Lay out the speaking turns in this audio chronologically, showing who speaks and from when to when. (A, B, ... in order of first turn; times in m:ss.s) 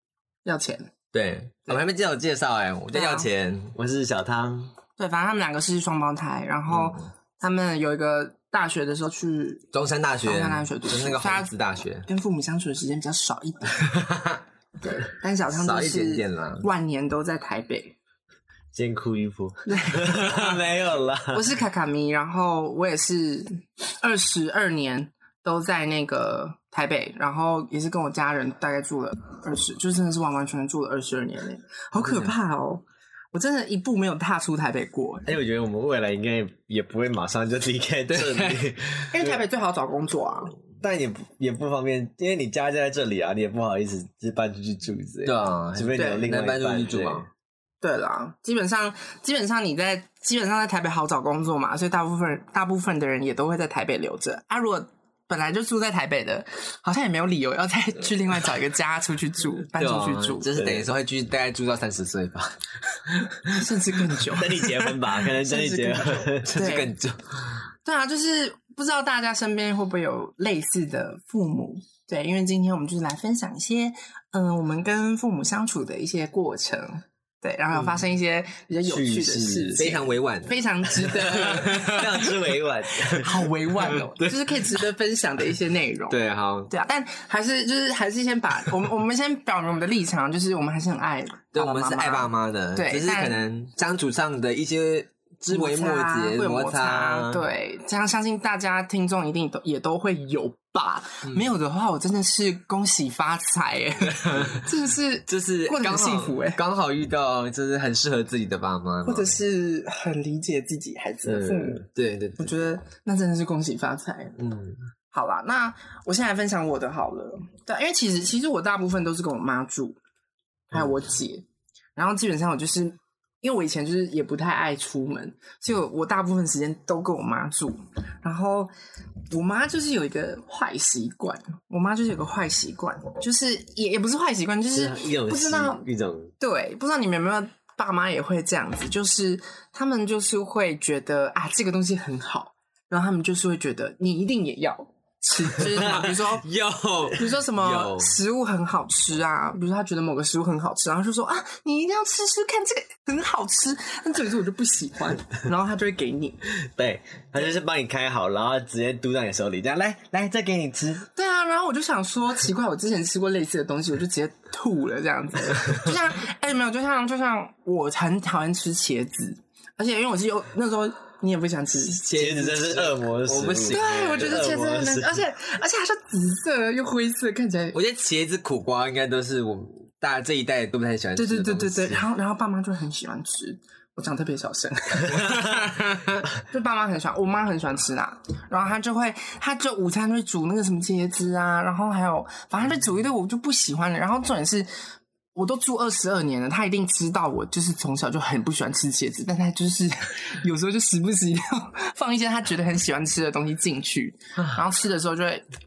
0:00.4-0:00.9 A
0:01.1-0:03.8 B
0:02.9-0:03.3 A
0:03.8-0:04.7 C
0:05.0-0:09.6 A
0:06.7-0:07.0 B
0:09.7-0:12.1 B
0:10.2-0:11.5 A
0:12.1-0:13.8 A
0:13.9-0:14.4 B
0:14.9-0:18.0 A
0:15.5-0:16.7 B
0:18.7-0:21.4 C
0:19.7-0:20.6 A
0:21.3-0:35.3 A
0:35.3-0:39.3 C
0:38.1-0:38.8 B
0:39.1-0:40.6 A
0:40.8-0:47.3 C
0:45.2-0:47.3 B
0:46.0-0:46.2 A
0:47.8-1:00.5 A
0:59.8-1:03.3 B
1:00.6-1:00.8 C
1:03.5-1:04.8 A
1:04.4-1:06.5 C
1:05.4-1:06.9 A
1:06.4-1:07.6 B
1:07.8-1:22.3 A
1:18.8-1:19.9 C
1:19.8-1:22.2 B
1:21.7-1:23.5 C
1:23.2-1:26.2 A
1:26.1-1:26.7 B
1:26.7-1:33.4 A
1:31.5-1:37.4 B
1:35.5-1:46.6 A
1:44.1-1:44.6 B
1:45.3-1:49.4 B
1:49.0-1:51.8 A
1:51.2-1:51.8 C
1:51.9-1:52.6 B
1:52.4-1:54.4 A
1:55.1-2:00.0 A
2:00.7-2:01.4 A
2:02.0-2:08.7 A
2:09.3-2:15.8 A
2:14.7-2:16.3 C
2:16.4-2:26.4 A
2:25.6-2:28.2 B
2:27.1-2:36.4 A
2:36.8-2:41.1 C
2:41.2-2:52.0 A
2:51.8-2:54.4 B
2:52.1-2:55.2 C
2:53.7-2:57.8 A
2:57.7-3:02.0 B
3:01.2-3:05.5 A
3:05.1-3:06.2 B
3:06.5-3:14.7 A
3:15.4-3:25.5 A